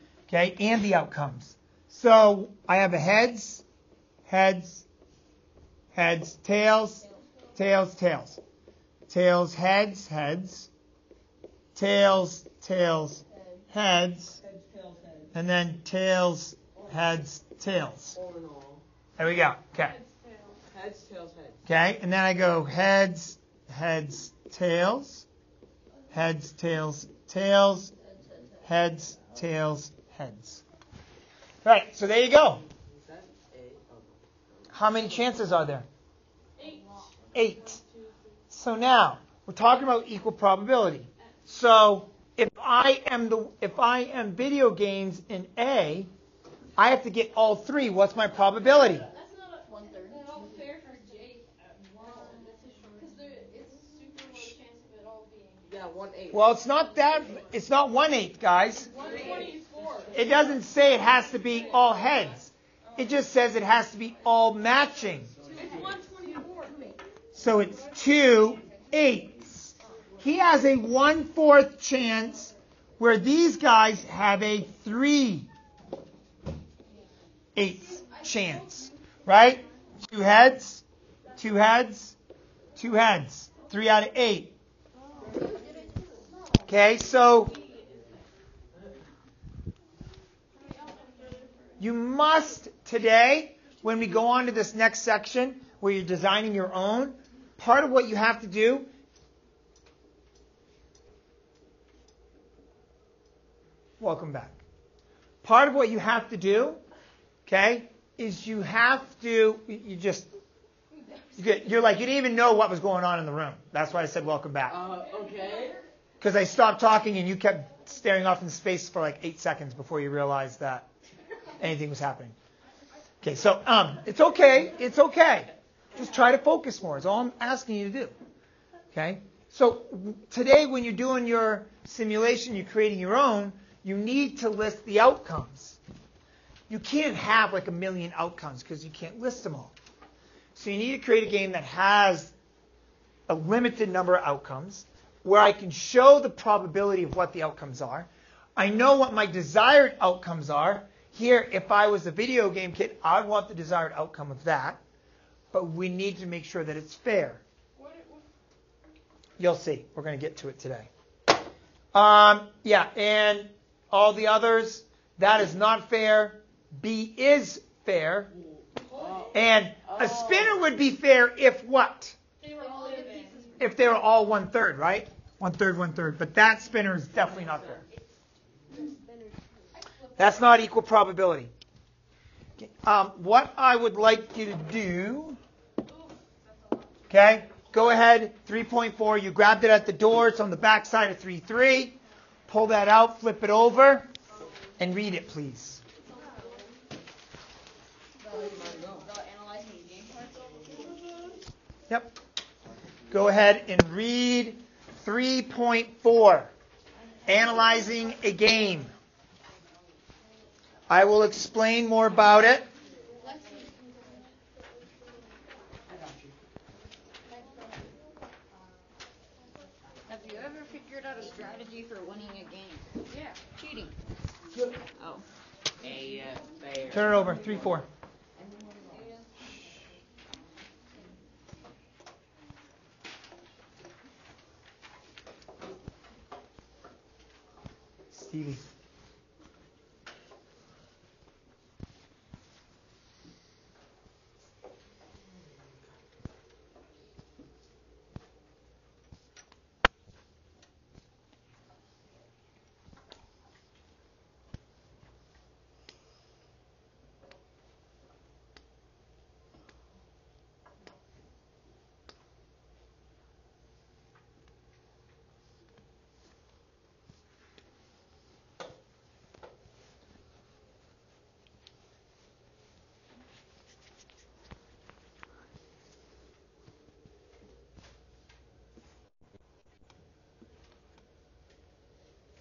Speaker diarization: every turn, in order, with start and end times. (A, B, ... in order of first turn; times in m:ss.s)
0:00.3-0:03.6 A
0:04.3-0:04.8 A
0:05.9-0:07.0 A
0:07.5-0:08.4 A
0:09.1-0:10.7 A
0:11.8-0:14.4 A
0:14.4-0:15.3 B
0:15.3-0:18.2 A
0:16.7-0:17.2 B
0:18.1-0:18.8 B
0:19.2-0:20.0 A
0:19.8-0:20.6 C
0:20.7-0:21.6 B
0:21.6-0:25.2 A
0:26.1-0:27.9 A
0:28.6-0:30.6 A
0:31.6-0:32.6 A
0:32.6-0:35.4 B
0:34.7-0:35.8 A
0:36.6-0:38.4 C
0:37.3-0:37.8 A
0:38.5-0:46.1 A
0:46.8-0:49.0 A
0:49.1-0:51.5 C
0:49.6-0:50.5 D
0:52.1-0:53.1 D
0:52.9-0:55.7 C
0:55.6-0:56.5 B
0:56.3-0:58.9 A
0:58.8-1:00.5 C
0:58.9-1:00.7 B
1:00.1-1:05.3 A
1:01.5-1:02.0 B
1:05.3-1:06.0 B
1:05.5-1:06.8 C
1:07.3-1:15.5 A
1:17.5-1:20.8 A
1:18.1-1:18.6 C
1:21.4-1:22.1 A
1:22.8-1:24.5 A
1:25.3-1:25.9 D
1:26.6-1:27.5 A
1:27.4-1:28.2 C
1:30.6-1:31.4 C
1:31.8-1:38.9 A
1:44.0-1:44.6 A
1:45.4-1:46.8 A
1:47.4-1:50.3 A
1:51.4-1:54.8 A
1:54.7-1:55.8 B
1:56.2-2:00.9 A
2:01.6-2:02.3 A
2:03.2-2:08.1 A
2:08.9-2:15.8 A
2:16.7-2:19.7 A
2:20.5-2:22.3 A
2:23.3-2:34.8 A
2:35.5-2:37.4 A
2:37.8-2:38.2 C
2:39.4-2:40.9 A
2:41.9-2:48.3 A
2:48.8-2:50.6 B
2:48.9-2:49.2 C
2:49.3-2:52.2 A
2:52.4-2:53.7 C
2:52.5-2:53.6 D
2:53.6-2:57.8 A
2:57.2-2:57.8 B
3:00.2-3:01.5 A
3:02.6-3:05.4 A
3:05.9-3:07.0 C
3:07.1-3:12.0 A
3:12.5-3:14.1 A
3:14.8-3:15.8 A
3:16.1-3:16.6 C
3:18.2-3:20.8 D
3:18.3-3:19.1 B
3:21.9-3:22.1 A
3:23.1-3:26.5 A
3:27.2-3:28.9 A
3:30.9-3:32.6 A
3:35.9-3:36.3 B
3:40.1-3:43.9 D
3:45.0-3:45.2 D
3:46.0-3:47.8 B
3:46.9-3:47.8 A
3:58.1-3:58.6 A